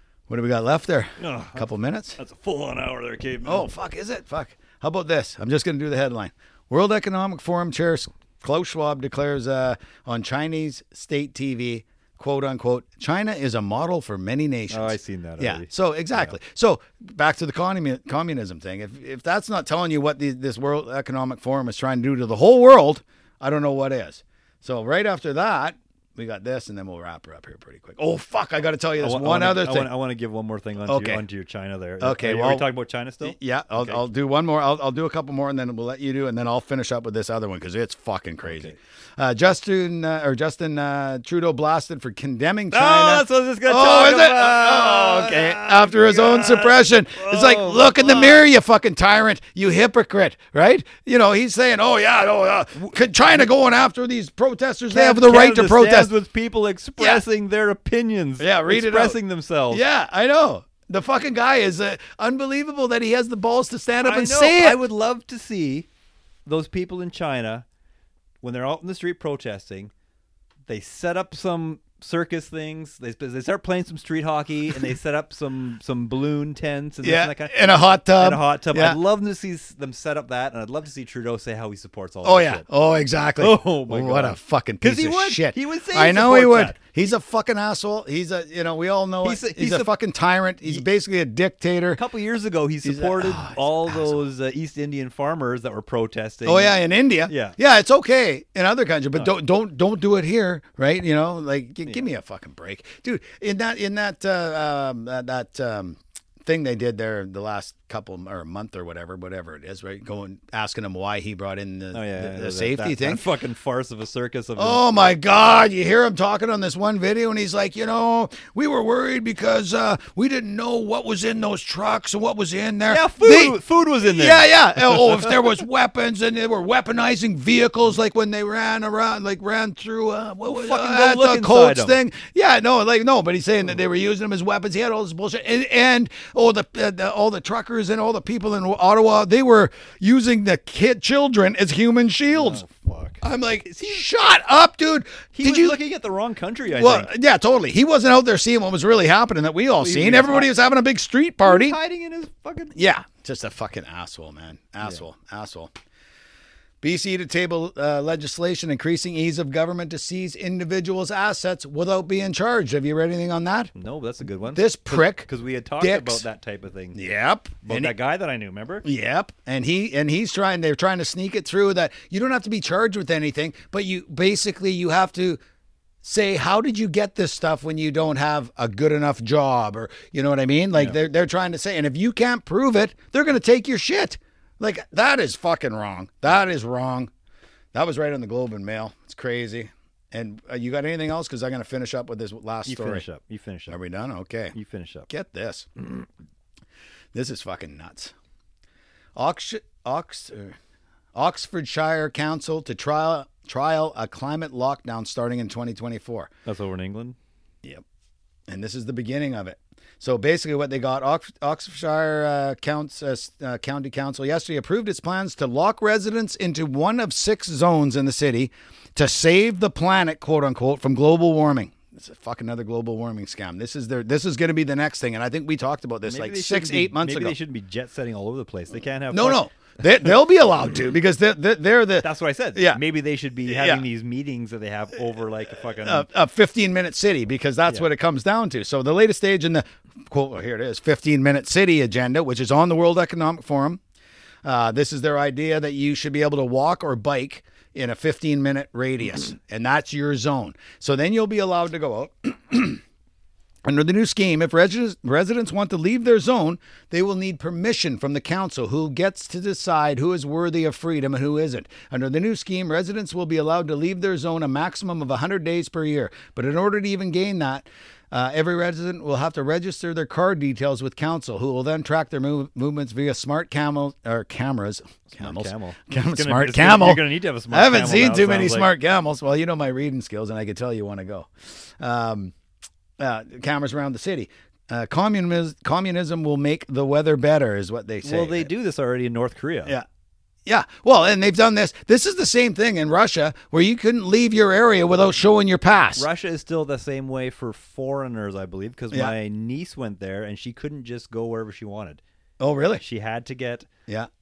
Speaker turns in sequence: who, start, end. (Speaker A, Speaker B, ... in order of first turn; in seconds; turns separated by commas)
Speaker A: 0.3-2.2, Speaker B: 1.2-3.7, Speaker A: 3.4-29.9, Speaker B: 14.7-16.3, Speaker B: 29.0-34.0, Speaker A: 30.9-31.2, Speaker A: 32.0-32.7, Speaker A: 33.2-56.1, Speaker B: 38.4-38.8, Speaker B: 42.7-48.5, Speaker B: 52.8-53.5, Speaker B: 54.9-59.8, Speaker A: 57.0-57.2, Speaker A: 58.4-59.2, Speaker A: 59.7-64.8, Speaker B: 64.0-65.9, Speaker B: 66.5-67.6, Speaker B: 68.4-69.9, Speaker B: 70.7-82.7, Speaker A: 77.0-79.0, Speaker A: 82.2-92.0, Speaker B: 83.4-86.8, Speaker B: 89.2-89.9, Speaker B: 92.0-97.5, Speaker A: 92.8-94.2, Speaker A: 96.4-113.2, Speaker B: 111.9-115.0, Speaker A: 114.6-142.6, Speaker B: 122.9-125.5, Speaker B: 130.4-132.0, Speaker B: 142.3-144.1, Speaker A: 143.2-145.8, Speaker B: 145.3-147.1, Speaker A: 146.7-151.8, Speaker B: 149.8-150.5, Speaker B: 151.4-152.7, Speaker A: 152.7-155.7, Speaker A: 156.8-163.7, Speaker B: 163.7-167.0, Speaker A: 164.5-165.2, Speaker A: 165.8-166.2, Speaker A: 166.9-167.9, Speaker B: 167.6-168.8, Speaker A: 168.8-175.4, Speaker A: 176.0-187.1, Speaker A: 187.7-193.1, Speaker B: 192.7-193.8, Speaker A: 193.7-194.5, Speaker B: 194.5-195.1, Speaker A: 195.1-195.7, Speaker A: 197.1-198.1, Speaker A: 199.2-200.6, Speaker A: 201.1-206.3, Speaker B: 206.4-207.2, Speaker A: 208.5-227.3, Speaker B: 226.1-229.4, Speaker A: 229.1-232.8, Speaker B: 232.0-236.1, Speaker A: 233.4-233.8, Speaker A: 235.8-243.8, Speaker A: 244.4-252.8, Speaker A: 253.6-282.3, Speaker B: 275.1-278.7, Speaker A: 283.0-288.5, Speaker B: 288.0-289.8, Speaker A: 290.4-296.0, Speaker B: 295.9-302.0, Speaker A: 302.4-302.8, Speaker B: 302.8-303.7